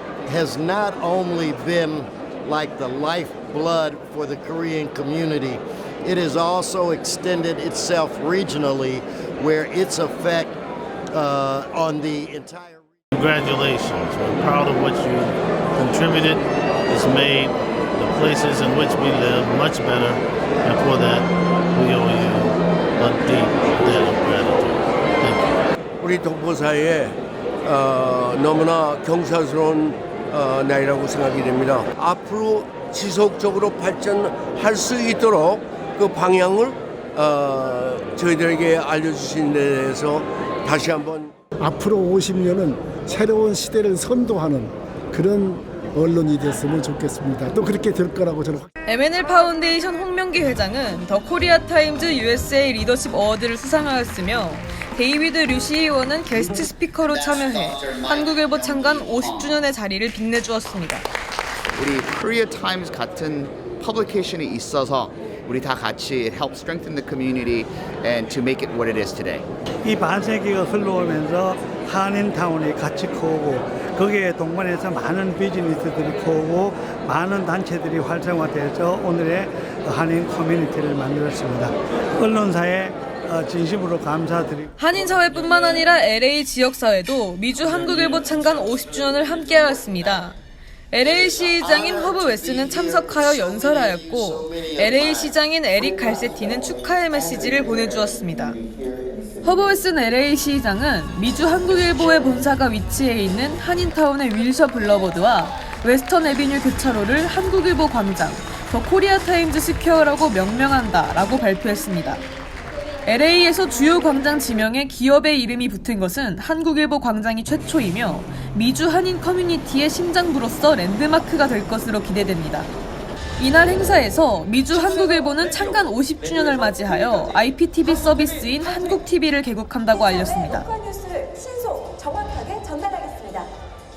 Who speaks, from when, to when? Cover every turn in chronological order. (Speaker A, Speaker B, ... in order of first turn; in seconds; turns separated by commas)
Speaker A: 0.3-5.6, Speaker A: 6.1-10.5, Speaker A: 11.2-12.8, Speaker B: 13.1-25.6, Speaker C: 26.0-41.3, Speaker D: 41.6-48.7, Speaker E: 48.9-61.1, Speaker F: 57.1-59.3, Speaker F: 61.8-69.4, Speaker G: 69.8-84.7, Speaker E: 84.8-90.3, Speaker E: 90.9-98.6, Speaker F: 91.1-95.2, Speaker F: 98.6-99.0, Speaker E: 99.4-112.2, Speaker E: 113.0-122.7, Speaker E: 123.4-130.7, Speaker H: 130.5-133.5